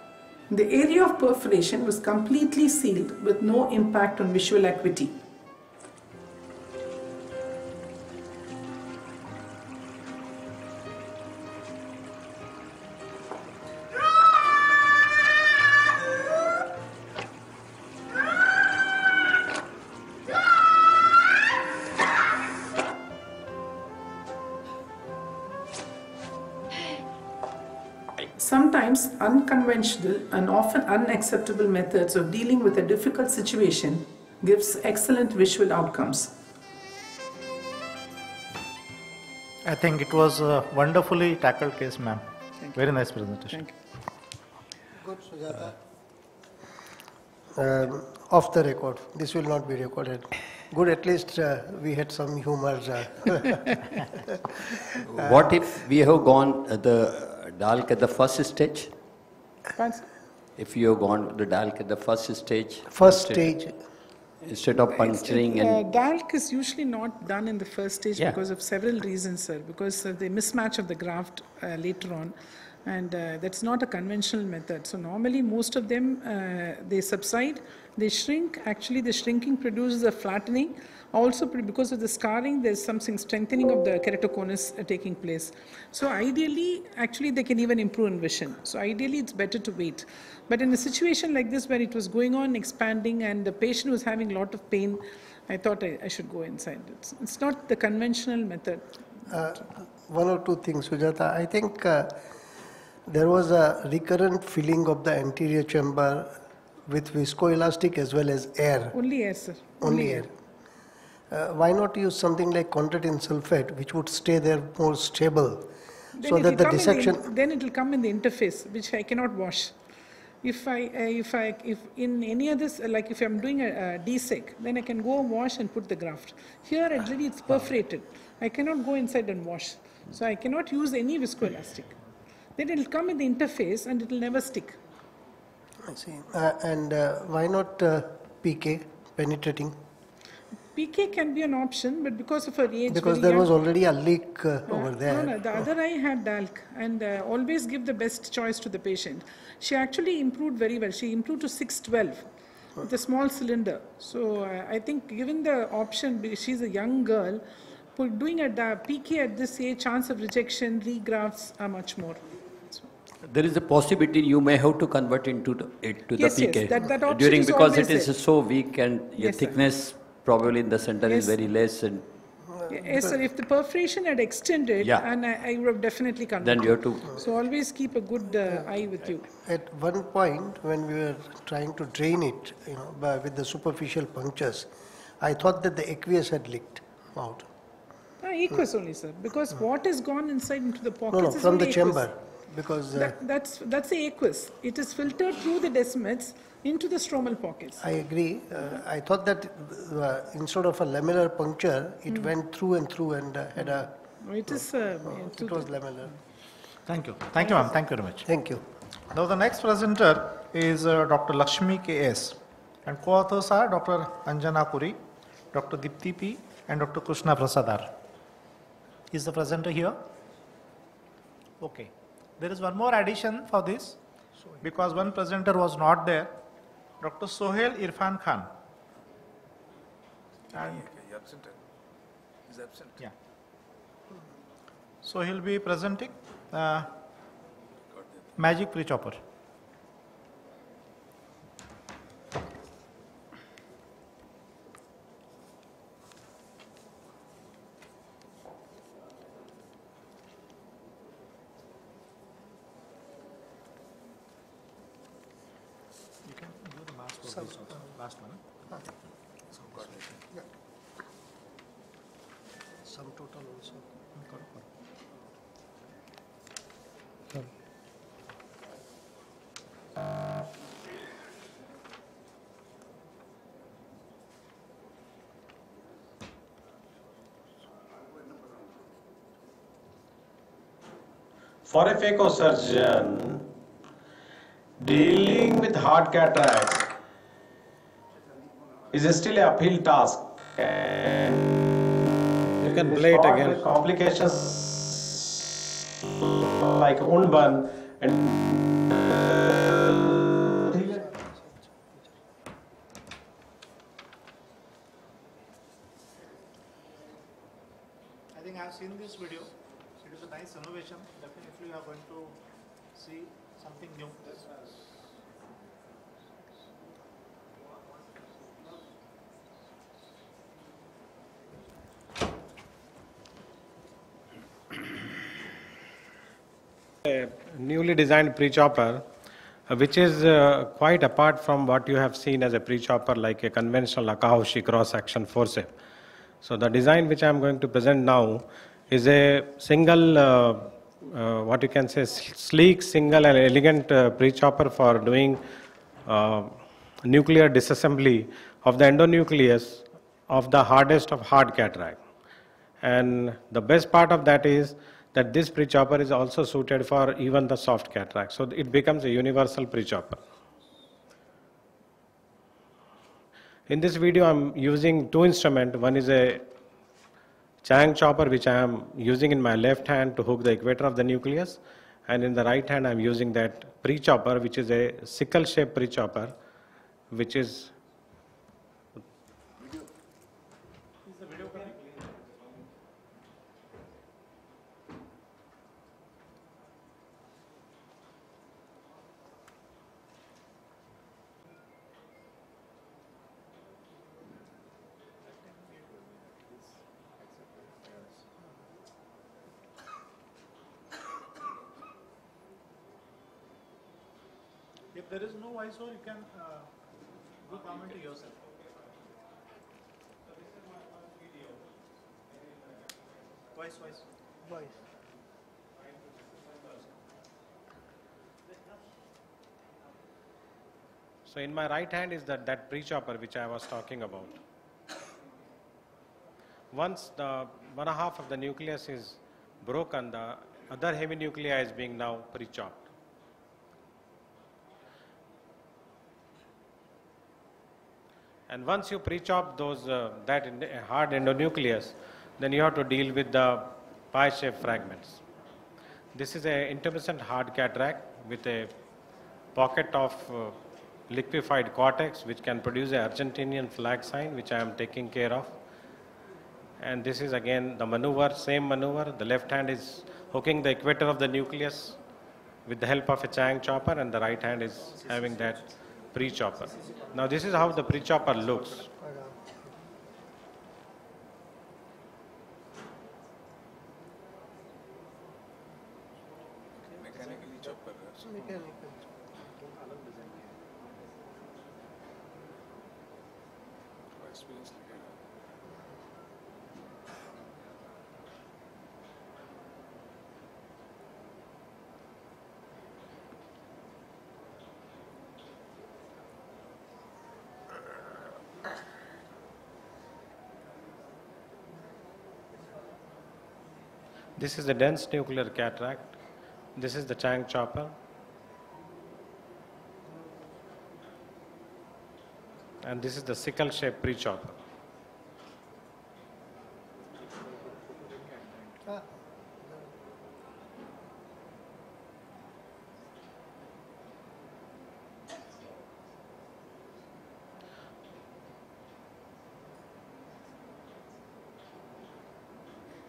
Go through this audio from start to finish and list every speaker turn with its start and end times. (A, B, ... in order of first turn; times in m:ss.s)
0:00.5-0:05.2 A
0:28.4-0:36.3 A
0:39.6-0:43.7 B
0:45.0-0:45.7 C
0:47.5-0:53.6 C
0:55.0-0:58.9 D
0:55.1-0:55.5 C
0:59.8-1:00.0 A
1:00.6-1:03.6 D
1:02.9-1:03.8 C
1:04.4-1:05.9 D
1:05.0-1:12.3 A
1:08.2-1:08.4 D
1:12.8-1:38.8 A
1:39.3-1:42.2 C
1:43.0-1:48.9 C
1:48.9-1:50.3 A
1:49.8-1:50.3 C
1:51.3-1:55.7 C
1:56.2-1:59.7 A
1:56.2-1:57.2 C
2:00.4-2:11.9 A
2:12.6-2:14.8 A
2:15.8-2:19.8 C
2:20.7-2:23.5 A
2:22.9-2:25.4 C
2:24.7-2:32.3 A
2:32.8-2:37.4 A
2:38.0-2:42.8 A
2:43.2-2:52.1 D
2:46.2-2:48.1 A
2:49.2-2:49.6 A
2:51.1-2:51.4 A
2:52.4-2:53.2 C
2:52.7-2:59.2 A
2:54.8-2:55.1 D
2:56.4-2:57.1 D
2:58.4-2:58.7 C
2:59.4-3:04.7 C
3:05.2-3:07.5 C
3:08.2-3:12.0 A
3:11.1-3:13.1 C
3:12.9-3:17.8 A
3:17.8-3:23.9 C
3:22.1-3:22.3 A
3:23.6-3:26.1 A
3:25.0-3:26.1 C
3:26.9-3:28.3 B
3:28.2-3:28.6 C
3:29.1-3:35.0 B
3:35.5-3:37.9 B
3:39.1-3:40.0 B
3:41.6-3:44.0 B
3:44.6-3:46.4 B
3:47.0-3:48.5 B
3:50.5-3:51.6 E
3:50.5-3:50.8 B
3:52.5-3:53.1 E
3:55.0-3:56.9 B
3:57.9-3:58.3 E
3:58.4-3:59.2 B
4:16.2-4:18.4 B
4:17.2-4:17.9 C
4:19.5-4:20.1 B
4:22.8-4:23.9 C
4:24.2-4:24.6 B
4:41.6-4:43.4 F
4:44.8-4:46.9 F
4:48.9-4:51.4 F
4:52.6-4:54.6 F
4:56.2-5:01.0 F
5:00.8-5:02.2 C
5:08.3-5:09.5 B
5:10.0-5:12.4 B
5:12.9-5:15.0 B
5:27.0-5:29.0 F
5:29.7-5:35.7 F
5:36.4-5:45.4 F
5:46.0-5:52.0 F
5:52.8-6:00.2 F
6:03.7-6:06.4 F
6:07.6-6:16.3 F
6:17.1-6:17.7 F
6:21.0-6:22.5 B
6:35.4-6:38.2 B
6:44.9-6:46.7 B
6:47.4-6:48.6 B
6:53.5-6:54.0 B
7:01.3-7:04.4 F
7:06.7-7:12.8 F
7:18.5-7:25.2 F
7:26.1-7:28.7 F
7:29.5-7:30.6 F
7:31.1-7:35.5 F
7:36.8-7:42.0 F
7:42.7-7:45.6 F
7:44.8-7:45.5 B
7:46.1-7:48.8 F
7:48.9-7:49.7 C
7:56.9-7:57.6 B
7:57.0-7:58.2 E
7:58.2-7:59.3 C
7:59.5-8:00.6 B
8:04.2-8:05.1 E
8:24.4-8:26.1 F
8:26.8-8:27.9 F
8:32.8-8:34.6 F
8:38.8-8:39.9 C